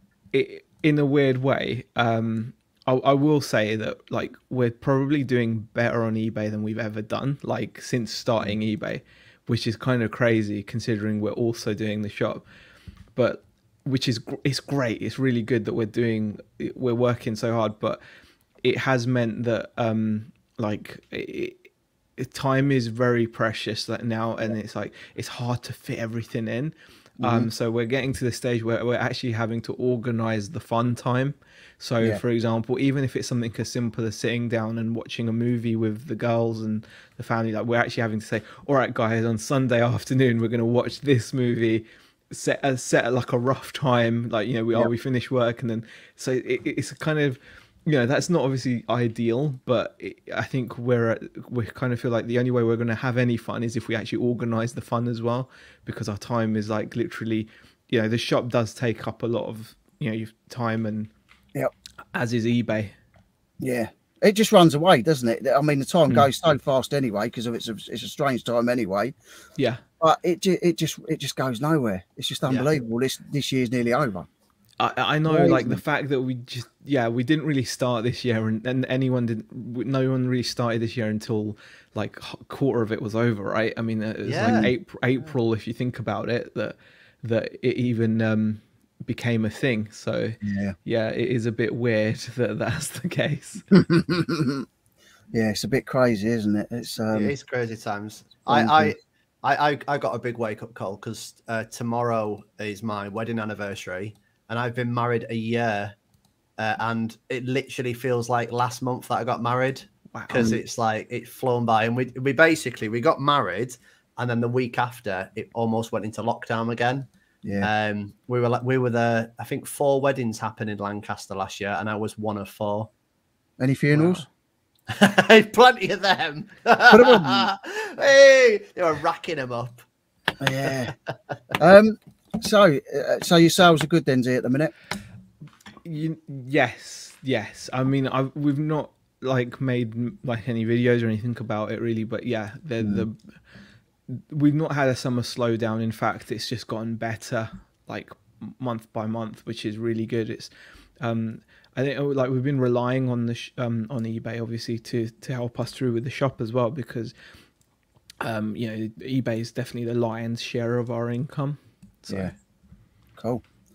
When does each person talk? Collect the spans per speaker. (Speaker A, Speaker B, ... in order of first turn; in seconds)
Speaker A: 0.3-12.4, 13.2-18.0, 18.6-21.6, 22.2-61.1, 62.1-63.0, 69.6-69.8, 74.8-93.7, 110.1-110.5, 135.8-143.2, 144.1-157.1, 158.2-162.3
Speaker B: 27.2-27.5, 63.6-69.2, 70.0-74.3, 75.3-75.8, 84.4-84.7, 90.4-90.8, 93.7-94.7, 95.3-97.3, 98.5-99.0, 117.4-117.7, 123.6-124.2, 126.9-127.5, 130.4-130.9, 131.6-134.7, 142.8-143.1, 163.2-163.4
Speaker C: 84.3-84.7, 97.1-105.9, 106.6-117.1, 117.6-122.9, 123.9-124.2, 124.9-129.8